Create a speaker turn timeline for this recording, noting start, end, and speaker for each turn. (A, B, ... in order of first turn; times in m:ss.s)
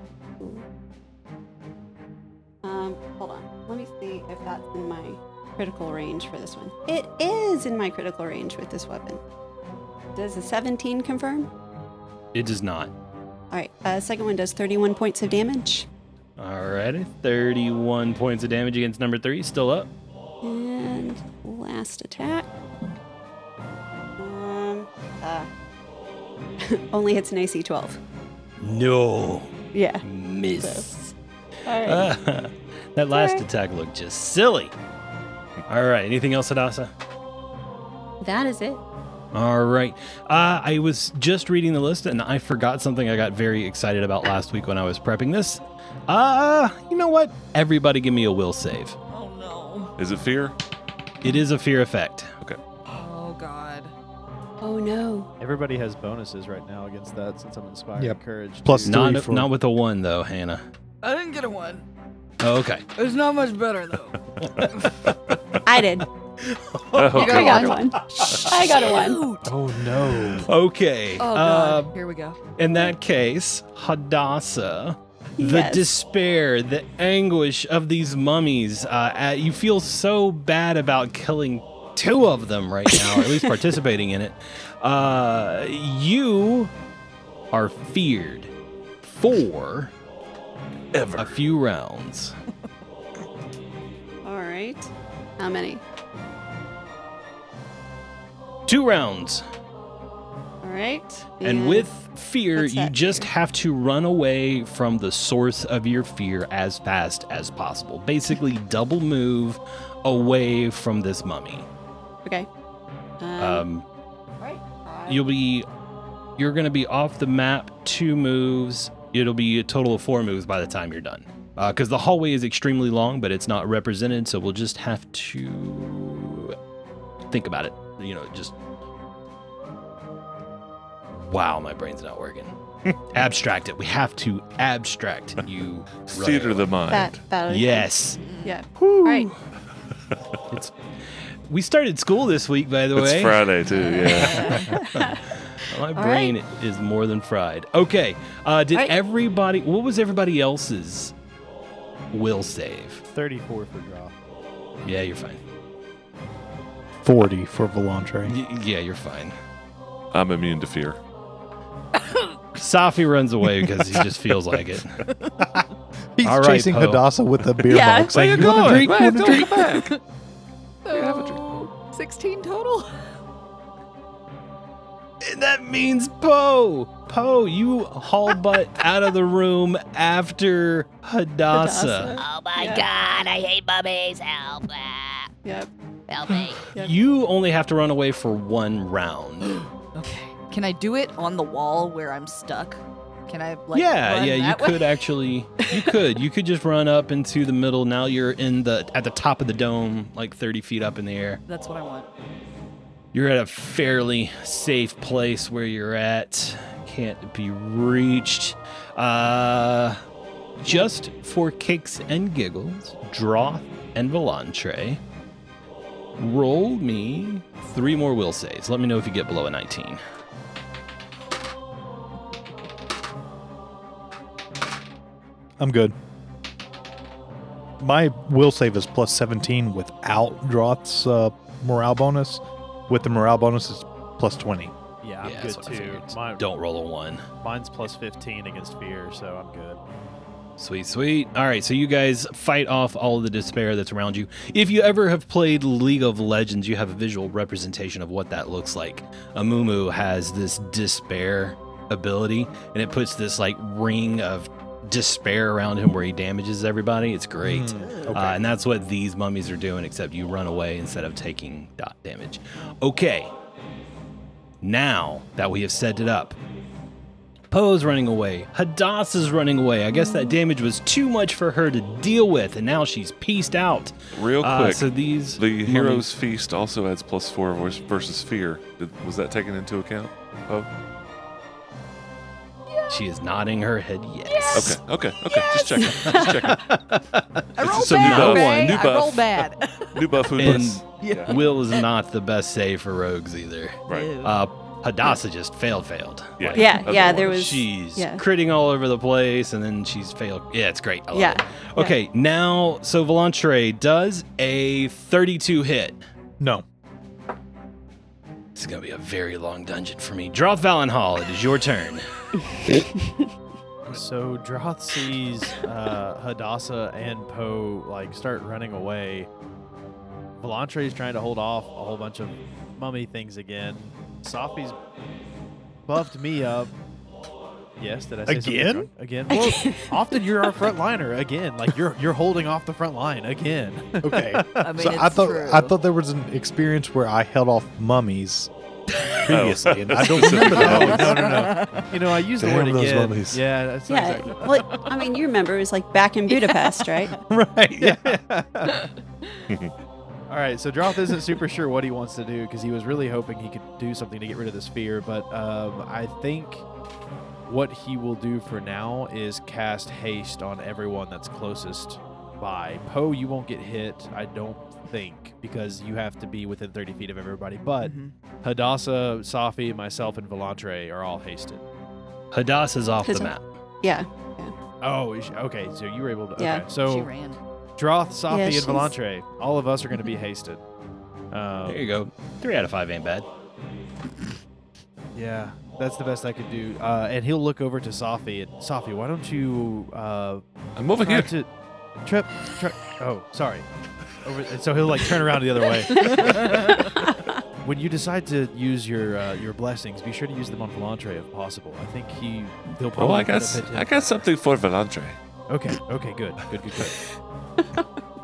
0:00.4-0:00.6 A
0:02.6-0:09.2 A
0:10.2-0:11.5 A
0:12.3-0:12.9 B
0:13.5-0:15.9 A
0:16.4-0:19.9 B
0:20.4-0:22.5 A
0:24.2-0:25.5 A
0:26.6-0:28.0 A
0:28.6-0:31.1 B
0:29.7-0:30.0 A
0:30.6-0:30.9 A
0:31.6-0:32.1 A
0:31.8-0:34.7 B
0:33.1-0:33.4 A
0:35.7-0:36.9 B
0:38.2-0:38.8 A
0:39.3-0:49.0 B
0:49.1-0:49.9 C
0:50.0-0:50.6 D
0:51.2-0:52.3 B
0:52.9-0:53.9 C
0:54.6-0:55.3 A
0:55.4-0:59.0 E
0:58.0-0:59.5 F
0:58.8-1:00.6 B
1:01.0-1:01.8 C
1:02.4-1:02.8 B
1:03.0-1:05.0 C
1:05.6-1:06.1 A
1:06.9-1:08.7 D
1:06.9-1:09.6 C
1:07.1-1:09.2 A
1:09.4-1:10.5 F
1:10.3-1:12.0 B
1:11.2-1:12.4 C
1:12.6-1:26.7 B
1:15.4-1:16.0 A
1:27.5-1:28.5 B
1:29.0-1:29.9 B
1:30.9-1:31.3 D
1:31.1-1:32.3 B
1:34.2-1:35.8 A
1:38.7-1:39.4 B
1:40.6-1:41.9 A
1:41.4-1:51.7 B
1:42.6-1:43.3 A
1:53.2-1:53.7 A
1:53.4-1:53.8 B
1:54.4-1:55.3 A
1:55.1-1:55.7 B
1:56.4-2:06.6 B
2:07.3-2:08.6 B
2:11.1-2:12.5 B
2:13.1-2:16.7 B
2:16.1-2:17.2 D
2:16.9-2:19.3 A
2:17.5-2:18.2 B
2:18.2-2:18.6 C
2:18.8-2:19.4 B
2:20.5-2:20.8 B
2:21.5-2:31.1 B
2:23.0-2:24.7 D
2:24.1-2:25.2 A
2:26.0-2:26.4 A
2:32.1-2:33.0 B
2:33.1-2:34.1 E
2:34.8-2:35.4 B
2:37.0-2:38.4 F
2:38.2-2:39.4 B
2:40.1-2:41.0 D
2:42.0-2:42.4 C
2:42.6-2:45.0 B
2:46.2-2:49.7 F
2:46.2-2:47.0 B
2:47.7-2:48.1 A
2:48.1-2:49.9 D
2:48.2-2:48.9 B
2:49.2-2:50.0 C
2:50.8-2:53.0 C
2:50.9-2:51.5 D
2:55.2-3:02.2 B
3:01.5-3:02.9 A
3:02.2-3:05.3 G
3:05.4-3:05.7 A
3:06.1-3:06.6 G
3:06.7-3:09.6 B
3:09.9-3:15.0 C
3:13.7-3:21.4 B
3:21.5-3:22.1 C
3:23.1-3:30.0 B
3:30.6-3:35.0 B
3:36.2-3:40.0 B
3:45.6-3:46.0 F
3:47.8-3:54.7 F
3:55.0-3:56.4 E
3:55.2-3:57.2 B
3:57.4-3:59.8 E
4:00.6-4:23.3 B
4:17.4-4:18.4 F
4:24.6-4:26.4 B
4:27.5-4:36.1 B
4:34.1-4:40.7 D
4:42.7-4:43.0 C
4:42.9-4:44.8 B
4:44.3-4:46.6 C
4:44.5-4:46.7 D
4:47.6-4:51.9 C
4:47.6-4:48.8 B
4:47.6-4:51.3 D
4:50.4-5:06.0 B
4:50.5-4:50.8 F
4:53.9-4:54.1 D
4:53.9-4:54.4 C
4:56.4-4:57.3 D
4:56.6-4:58.2 A
5:01.1-5:02.0 A
5:06.4-5:06.6 F
5:08.6-5:12.1 B
5:13.9-5:19.3 E
5:20.4-5:24.8 E
5:25.9-5:26.7 E
5:27.8-5:34.7 E
5:28.3-5:28.9 F
5:29.3-5:29.7 A
5:34.0-5:38.5 F
5:34.6-5:35.8 C
5:38.9-5:39.3 C
5:39.3-5:41.5 F
5:39.3-5:41.1 D
5:40.3-5:44.6 E
5:40.5-5:41.9 C
5:42.4-5:43.4 F
5:42.4-5:43.3 D
5:43.9-5:47.1 A
5:46.3-5:47.2 C
5:47.3-5:48.2 F
5:47.8-5:48.9 E
5:50.3-5:56.6 E
5:57.5-6:11.6 E
6:07.8-6:08.1 C
6:12.3-6:13.5 B
6:13.0-6:14.5 A
6:14.8-6:17.1 E
6:16.4-6:16.6 A
6:16.8-6:17.4 C
6:17.8-6:20.6 E
6:18.3-6:18.9 A
6:21.3-6:21.9 E
6:21.7-6:23.3 B
6:25.2-6:30.4 E
6:30.8-6:31.3 D
6:31.0-6:31.5 E
6:32.0-6:33.7 E
6:34.2-6:36.9 E
6:35.9-6:36.9 C
6:37.6-6:44.3 E
6:43.0-6:45.2 D
6:45.5-6:47.0 E